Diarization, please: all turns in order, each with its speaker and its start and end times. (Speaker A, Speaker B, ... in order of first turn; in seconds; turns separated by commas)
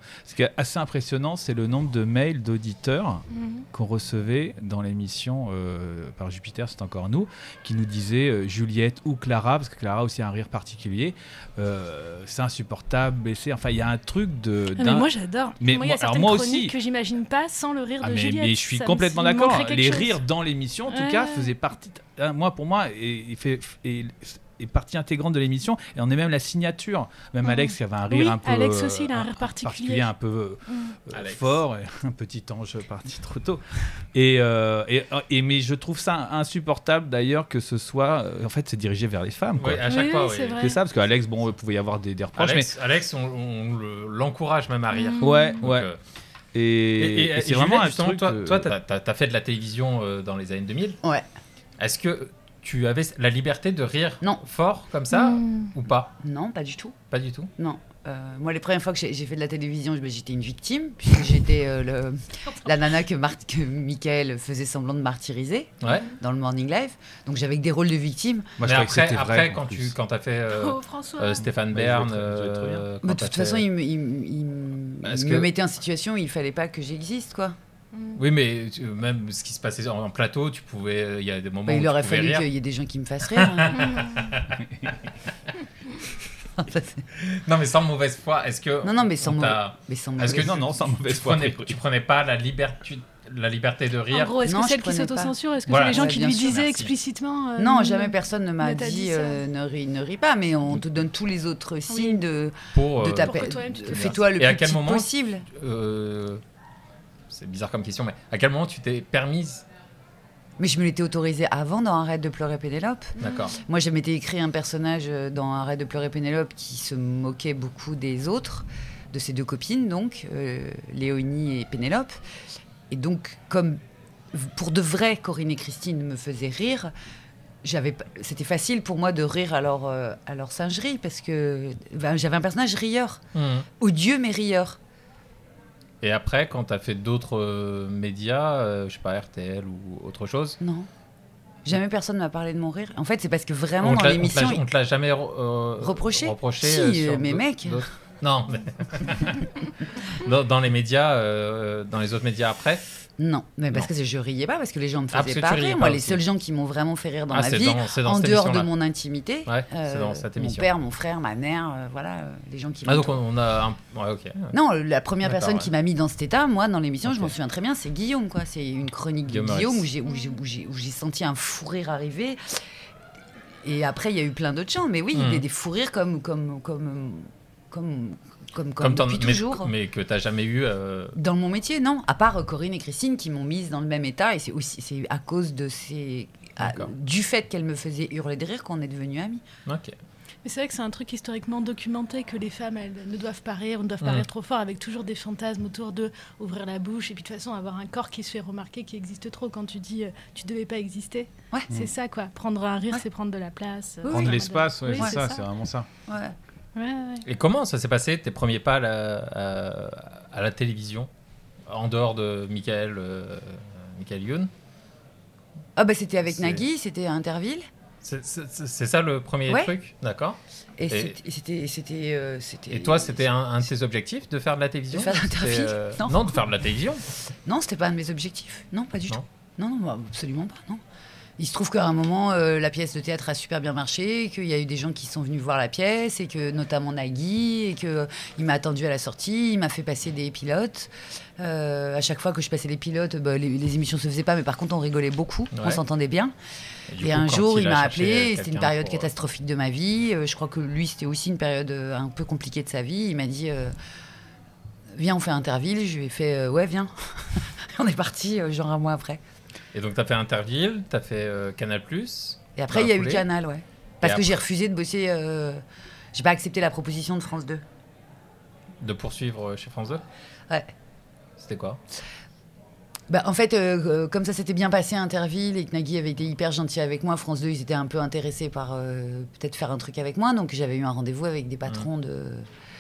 Speaker A: 0.2-15.1, Speaker B: 3.3-3.6, Speaker B: 14.8-20.2, Speaker A: 15.6-16.7, Speaker A: 18.0-40.0, Speaker B: 20.9-21.5, Speaker B: 27.4-30.1, Speaker B: 30.7-30.9, Speaker C: 31.1-31.6, Speaker C: 39.6-40.7, Speaker B: 39.9-40.8, Speaker A: 40.6-42.7, Speaker C: 42.4-46.0, Speaker B: 44.9-45.6, Speaker A: 45.2-45.9, Speaker A: 46.5-48.7, Speaker C: 47.0-51.0, Speaker C: 51.8-56.1, Speaker B: 55.1-55.7, Speaker D: 56.2-56.9, Speaker C: 57.1-57.5, Speaker D: 57.6-68.5, Speaker C: 65.8-66.1, Speaker A: 68.6-69.9, Speaker C: 68.6-73.7, Speaker B: 70.5-71.4, Speaker A: 71.4-72.8, Speaker D: 73.0-77.5, Speaker C: 75.0-75.5, Speaker B: 77.9-78.2, Speaker C: 78.1-82.5, Speaker D: 81.7-84.0, Speaker C: 83.3-84.6, Speaker B: 83.9-84.2, Speaker D: 86.6-87.0, Speaker C: 87.2-94.4, Speaker D: 88.8-90.5, Speaker A: 90.2-91.8, Speaker B: 94.1-99.4, Speaker D: 94.4-95.3, Speaker C: 95.7-96.9, Speaker D: 95.9-96.6, Speaker D: 97.6-105.5, Speaker B: 101.9-102.2, Speaker C: 102.7-106.4, Speaker B: 103.2-104.2, Speaker C: 107.3-109.6, Speaker D: 110.6-122.2, Speaker C: 113.2-113.5, Speaker B: 113.2-113.5, Speaker D: 122.9-123.8, Speaker D: 124.3-126.9, Speaker D: 127.6-133.2, Speaker C: 133.3-133.7, Speaker D: 133.8-134.8, Speaker C: 136.0-140.6, Speaker D: 140.6-140.9, Speaker D: 141.6-144.6, Speaker C: 143.8-149.5, Speaker D: 145.8-147.8, Speaker C: 150.0-152.8, Speaker D: 153.2-163.2, Speaker C: 155.1-156.2, Speaker C: 157.3-158.7, Speaker C: 159.4-160.7, Speaker C: 162.8-164.5, Speaker D: 164.5-172.4, Speaker C: 165.2-165.7, Speaker C: 167.0-167.3, Speaker C: 169.3-169.9, Speaker D: 173.6-179.7, Speaker C: 175.1-175.4, Speaker C: 178.8-181.2, Speaker D: 181.1-189.4, Speaker C: 186.6-186.9, Speaker C: 189.7-189.9, Speaker B: 190.4-205.4, Speaker D: 204.0-204.4, Speaker A: 204.1-205.9, Speaker D: 206.1-206.3, Speaker B: 206.8-207.2, Speaker C: 207.2-211.1, Speaker C: 211.7-214.5, Speaker D: 215.8-217.7, Speaker C: 216.2-216.6, Speaker C: 218.0-220.4, Speaker D: 219.5-219.7, Speaker D: 220.8-223.3, Speaker C: 220.9-221.2, Speaker C: 222.7-227.0, Speaker D: 224.9-226.3, Speaker D: 227.4-230.8, Speaker D: 231.4-246.3, Speaker C: 245.5-245.8, Speaker C: 246.9-249.1, Speaker D: 247.0-253.7, Speaker D: 254.9-259.2, Speaker C: 259.7-263.2, Speaker D: 262.6-265.6, Speaker C: 264.0-264.4, Speaker D: 266.1-267.6, Speaker C: 268.8-270.0, Speaker C: 271.4-271.8, Speaker D: 273.1-282.4